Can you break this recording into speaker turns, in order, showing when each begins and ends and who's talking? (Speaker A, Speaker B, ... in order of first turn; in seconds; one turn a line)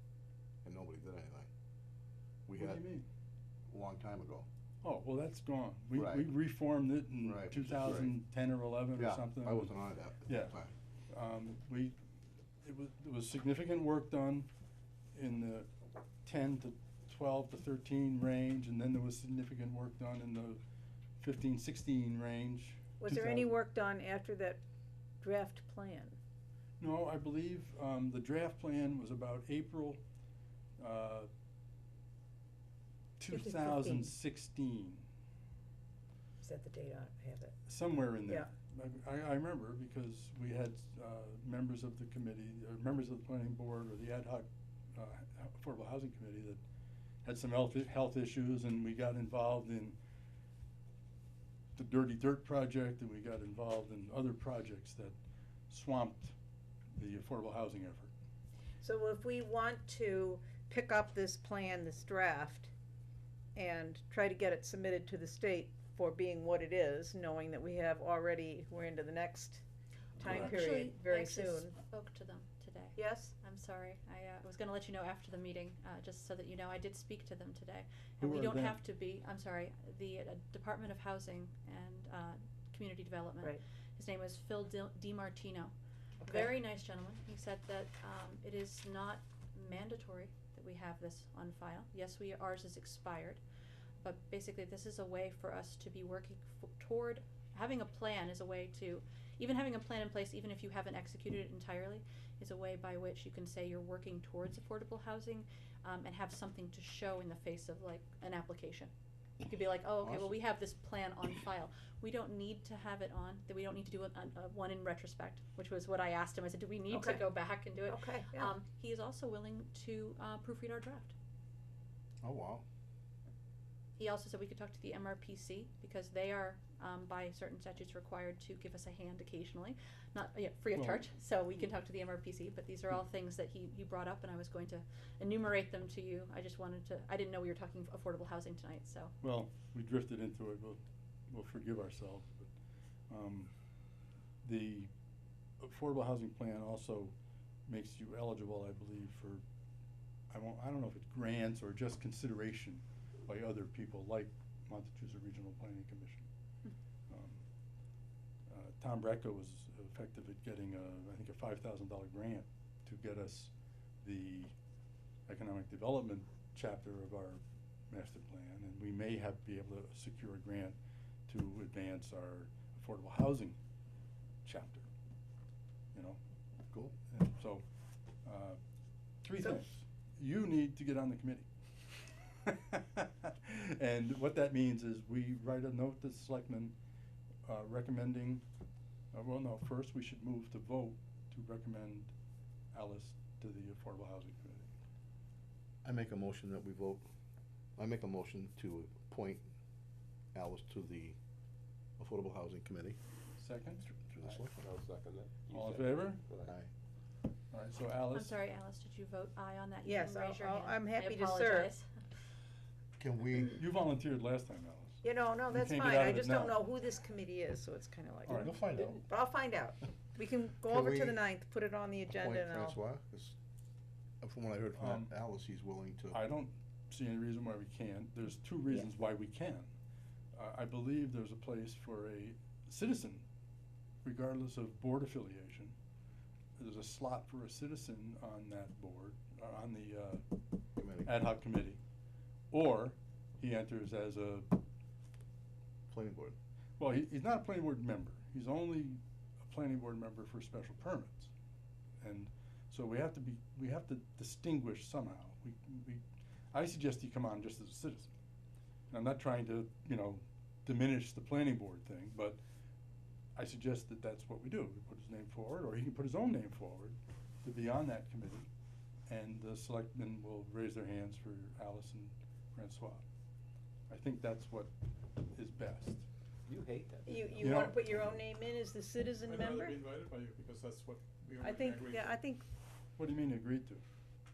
Speaker A: 0.6-1.5
Speaker A: 2.5-2.8
Speaker B: 2.6-3.0
Speaker A: 3.7-4.5
Speaker B: 4.8-9.7
Speaker A: 5.9-6.3
Speaker A: 7.2-8.2
Speaker A: 8.9-10.7
Speaker B: 10.2-10.6
Speaker B: 11.1-12.0
Speaker B: 12.6-14.5
Speaker B: 15.1-15.7
Speaker B: 16.2-20.6
Speaker B: 21.2-23.5
Speaker C: 23.0-24.6
Speaker C: 25.2-26.2
Speaker B: 26.8-30.0
Speaker B: 30.8-31.3
Speaker B: 33.2-35.0
Speaker C: 33.3-34.1
Speaker C: 36.4-37.6
Speaker B: 37.7-46.6
Speaker B: 47.2-50.0
Speaker B: 51.8-55.2
Speaker B: 55.7-56.3
Speaker B: 56.9-58.1
Speaker C: 58.8-62.7
Speaker C: 63.5-69.6
Speaker C: 70.2-71.7
Speaker B: 70.2-70.6
Speaker D: 70.2-93.4
Speaker C: 73.0-73.3
Speaker B: 78.2-78.8
Speaker C: 86.2-86.5
Speaker D: 94.0-108.9
Speaker D: 109.5-121.1
Speaker A: 110.0-110.4
Speaker C: 116.9-118.5
Speaker A: 122.2-122.6
Speaker D: 124.0-139.1
Speaker B: 130.8-131.0
Speaker B: 139.2-142.5
Speaker B: 143.1-143.5
Speaker B: 144.4-144.9
Speaker B: 145.6-147.1
Speaker B: 147.7-149.4
Speaker B: 150.3-156.2
Speaker B: 157.1-157.4
Speaker B: 158.5-163.5
Speaker B: 164.0-164.5
Speaker B: 165.3-170.8
Speaker B: 171.3-173.6
Speaker B: 174.4-174.9
Speaker B: 175.9-176.2
Speaker B: 177.1-177.7
Speaker B: 178.2-178.6
Speaker B: 179.2-181.5
Speaker B: 182.3-186.8
Speaker B: 187.5-188.4
Speaker B: 189.1-192.1
Speaker B: 192.7-194.7
Speaker A: 195.8-197.1
Speaker A: 197.8-199.5
Speaker A: 200.3-201.2
Speaker A: 202.0-203.0
Speaker B: 203.4-204.4
Speaker A: 203.8-204.6
Speaker E: 204.6-206.6
Speaker B: 205.5-206.2
Speaker A: 206.4-206.7
Speaker B: 207.5-208.4
Speaker D: 208.1-211.9
Speaker C: 209.8-211.7
Speaker A: 213.0-213.6
Speaker B: 213.5-216.6
Speaker C: 215.0-222.8
Speaker B: 218.2-218.6
Speaker A: 218.3-219.1
Speaker A: 220.7-221.2
Speaker A: 222.1-223.3
Speaker A: 224.2-226.2
Speaker B: 224.7-225.1
Speaker B: 226.1-229.7
Speaker B: 230.3-233.2
Speaker B: 234.0-235.8
Speaker B: 236.6-240.2
Speaker A: 240.8-241.2
Speaker B: 241.0-241.8
Speaker B: 242.5-244.6
Speaker A: 245.9-246.3
Speaker B: 246.8-251.3
Speaker B: 252.0-258.1
Speaker B: 258.9-262.4
Speaker B: 263.4-268.5
Speaker B: 269.1-273.0
Speaker B: 273.9-276.1
Speaker E: 276.5-277.6
Speaker C: 277.1-279.8
Speaker B: 277.4-277.8
Speaker F: 279.2-282.2
Speaker C: 281.4-282.4
Speaker B: 283.0-283.8